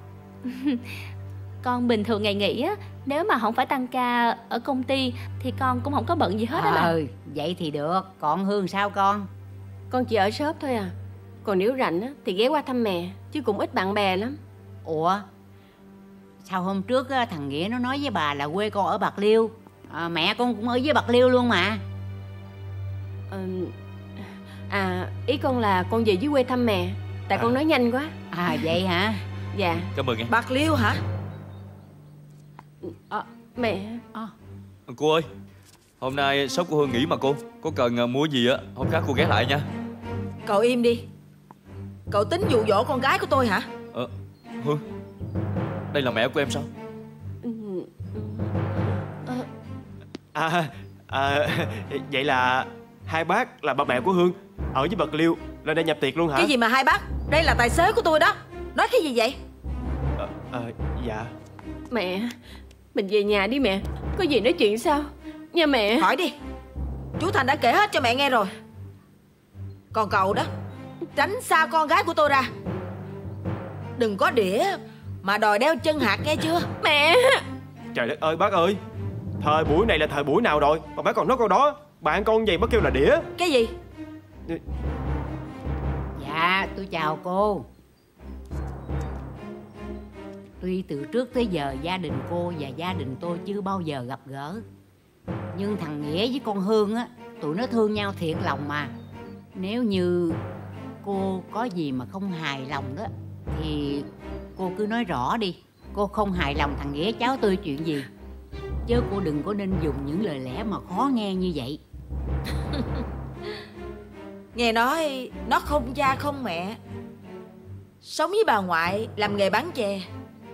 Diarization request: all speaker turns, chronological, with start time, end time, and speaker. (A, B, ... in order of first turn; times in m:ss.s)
0:00.5-0:01.0 A
0:01.6-0:06.9 A
0:06.5-0:09.3 B
0:09.9-0:14.4 C
0:14.8-0:15.2 B
0:16.4-0:21.8 B
0:23.3-0:28.1 C
0:28.3-0:29.2 B
0:29.5-0:29.9 C
0:29.9-0:30.3 D
0:30.3-0:31.0 E
0:32.8-0:34.0 C
0:34.9-0:35.3 D
0:36.0-0:39.6 D
0:40.4-0:41.0 E
0:42.1-0:43.7 E
0:43.9-0:44.8 D
0:45.9-0:46.7 D
0:47.4-0:48.5 C
0:50.3-0:56.5 F
0:56.3-0:59.4 E
1:00.2-1:01.3 F
1:01.9-1:02.4 C
1:02.9-1:06.1 C
1:06.0-1:06.3 E
1:07.2-1:08.5 E
1:09.9-1:10.5 E
1:11.2-1:12.5 E
1:14.0-1:16.7 E
1:16.8-1:17.4 C
1:17.9-1:18.8 F
1:19.4-1:23.2 F
1:23.4-1:23.7 E
1:26.2-1:27.7 B
1:30.6-1:34.6 B
1:35.5-1:38.9 B
1:39.5-1:40.4 B
1:41.0-1:48.1 B
1:48.8-1:51.8 B
1:54.5-1:56.8 E
1:58.0-2:00.0 E